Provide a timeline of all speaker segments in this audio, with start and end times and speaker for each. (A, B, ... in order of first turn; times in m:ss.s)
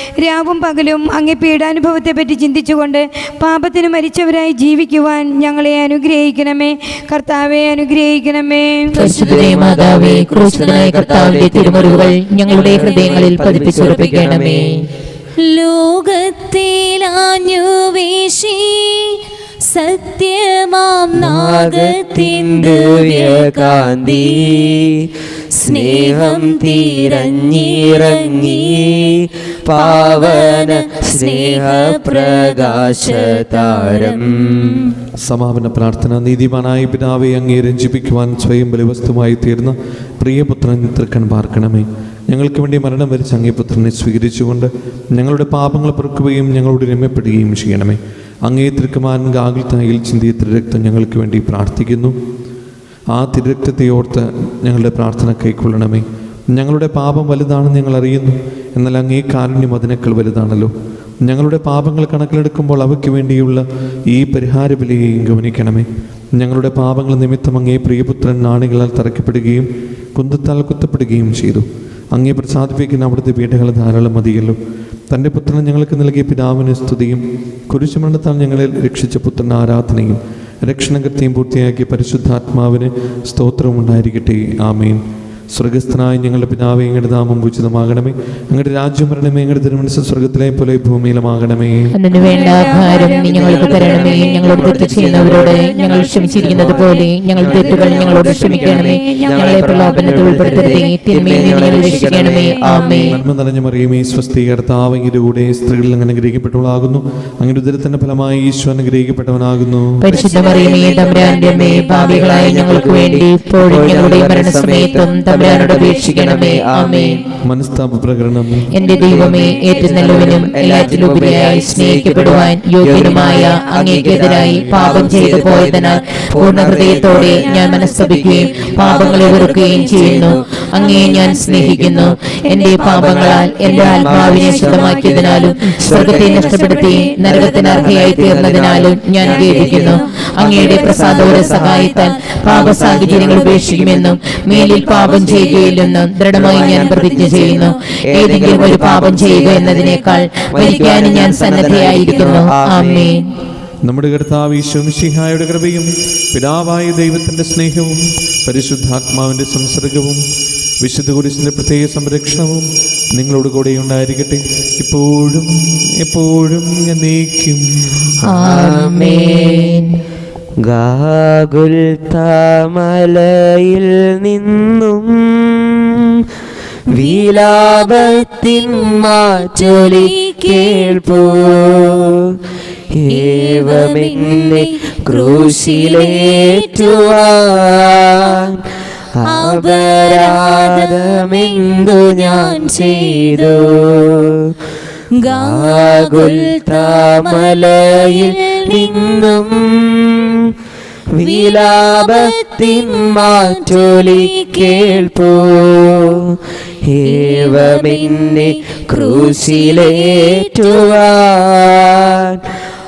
0:00.2-0:08.9 A
0:09.0-0:14.8 B
0:09.0-0:09.8 C
0:09.1-0:14.8 D
0:12.5-0:13.5 C
0:15.4-0:24.7 C
0:21.2-0:25.1 D
0:25.5-0:29.1 C
0:25.6-0:29.1 D
0:29.6-0:34.7 D
0:29.7-0:34.9 C
0:35.2-0:52.1 E
0:53.1-1:00.7 E
1:01.2-1:05.8 E
1:06.4-1:14.6 E
1:15.1-1:25.0 E
1:25.5-1:31.9 E
1:31.9-1:43.2 B
1:32.2-1:40.9 A
1:33.1-1:43.1 D
1:41.4-1:42.9 A
1:43.0-1:50.2 E
1:50.0-1:57.1 B
1:50.1-1:52.1 C
1:50.2-1:57.2 D
1:57.4-1:58.8 E
1:58.7-2:33.3 B
1:58.8-2:00.7 A
1:59.0-2:12.3 D
2:05.2-2:05.5 A
2:06.9-2:09.9 A
2:10.8-2:11.4 A
2:12.3-2:15.5 A
2:12.8-2:25.8 D
2:16.1-2:18.3 A
2:19.4-2:20.0 A
2:20.5-2:32.4 C
2:26.3-2:33.1 D
2:33.8-2:40.2 E
2:40.8-2:48.1 E
2:48.2-2:50.0 B
2:48.3-2:49.7 D
2:50.6-2:56.1 D
2:56.9-3:02.4 D
2:56.9-3:01.3 C
3:02.9-3:08.6 D
3:03.1-3:07.3 C
3:09.2-3:14.5 D
3:09.2-3:13.5 C
3:15.1-3:19.4 C
3:15.3-3:20.5 D
3:21.2-3:32.4 D
3:21.2-3:25.2 C
3:27.0-3:31.2 C